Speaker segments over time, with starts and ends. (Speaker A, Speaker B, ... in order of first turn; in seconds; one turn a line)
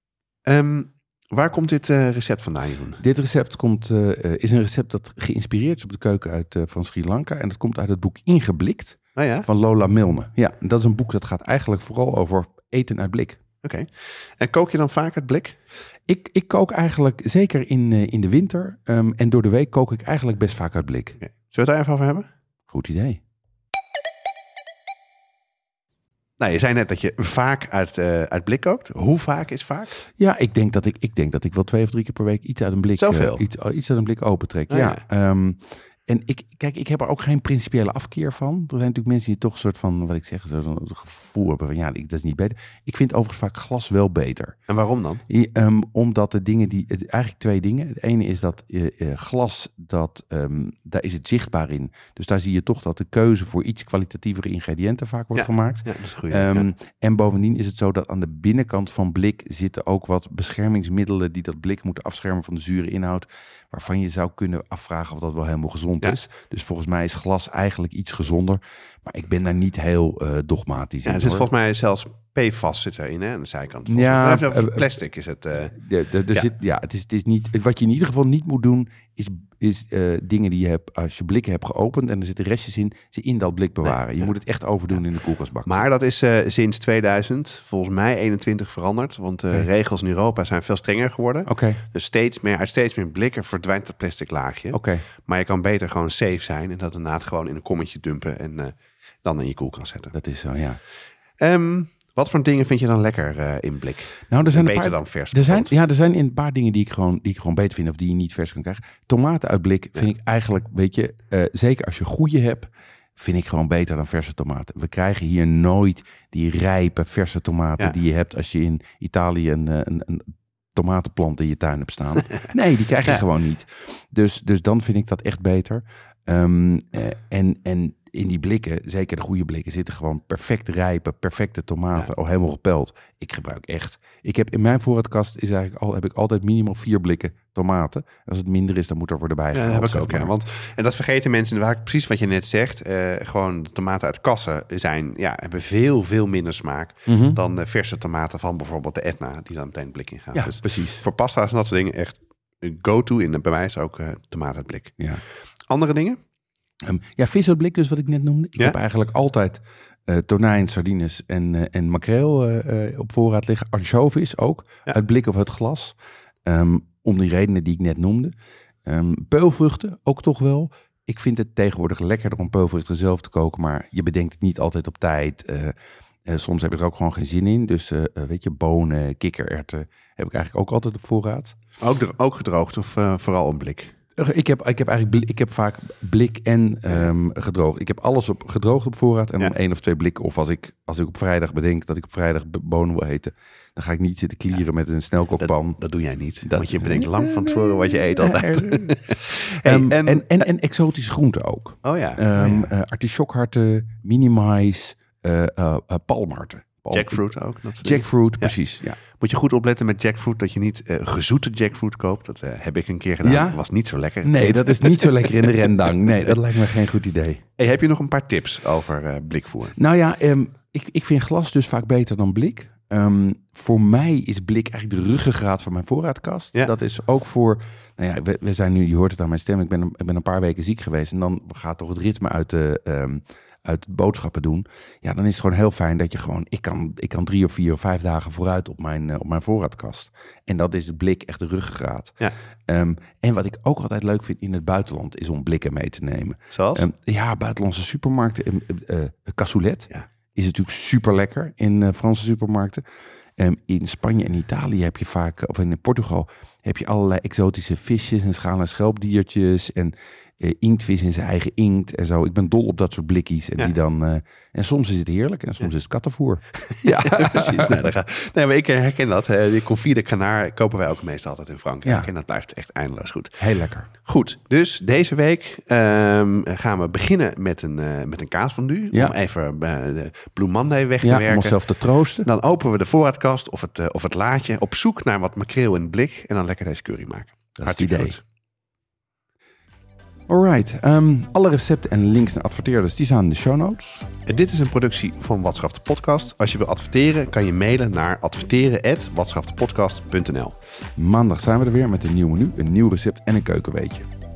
Speaker A: 0.5-3.0
Speaker B: 3.0-13.4
Speaker A: 9.2-9.5
Speaker A: 13.6-15.6
Speaker B: 16.1-21.2
Speaker A: 21.2-22.3
Speaker B: 22.7-23.2
Speaker A: 26.4-30.0
Speaker B: 30.2-44.6
Speaker A: 33.0-33.4
Speaker A: 34.7-35.0
Speaker A: 44.7-45.2
Speaker B: 45.3-71.5
Speaker A: 55.4-56.7
Speaker A: 71.0-75.8
Speaker B: 73.9-74.8
Speaker B: 75.7-85.9
Speaker A: 85.7-100.2
Speaker B: 91.5-91.8
Speaker B: 94.7-95.1
Speaker B: 100.1-100.8
Speaker A: 101.4-105.7
Speaker B: 104.3-140.3
Speaker A: 139.5-155.0
Speaker B: 147.1-147.4
Speaker B: 150.3-151.0
Speaker A: 155.7-156.2
Speaker B: 156.8-165.9
Speaker B: 166.5-168.3
Speaker B: 168.8-175.7
Speaker B: 176.3-181.6
Speaker A: 181.8-183.9
Speaker B: 184.2-195.8
Speaker A: 195.4-200.5
Speaker B: 196.4-207.3
Speaker A: 201.8-202.7
Speaker A: 206.9-208.6
Speaker B: 207.8-209.0
Speaker A: 209.2-215.7
Speaker B: 213.2-213.6
Speaker B: 214.2-217.4
Speaker A: 217.6-219.8
Speaker B: 219.8-252.8
Speaker A: 246.5-246.9
Speaker B: 253.4-267.8
Speaker A: 266.6-273.4
Speaker B: 273.4-273.9
Speaker A: 274.0-281.6
Speaker B: 281.0-282.3
Speaker A: 282.2-288.2
Speaker B: 287.6-288.1
Speaker B: 290.3-294.0
Speaker A: 294.3-300.6
Speaker B: 301.0-304.1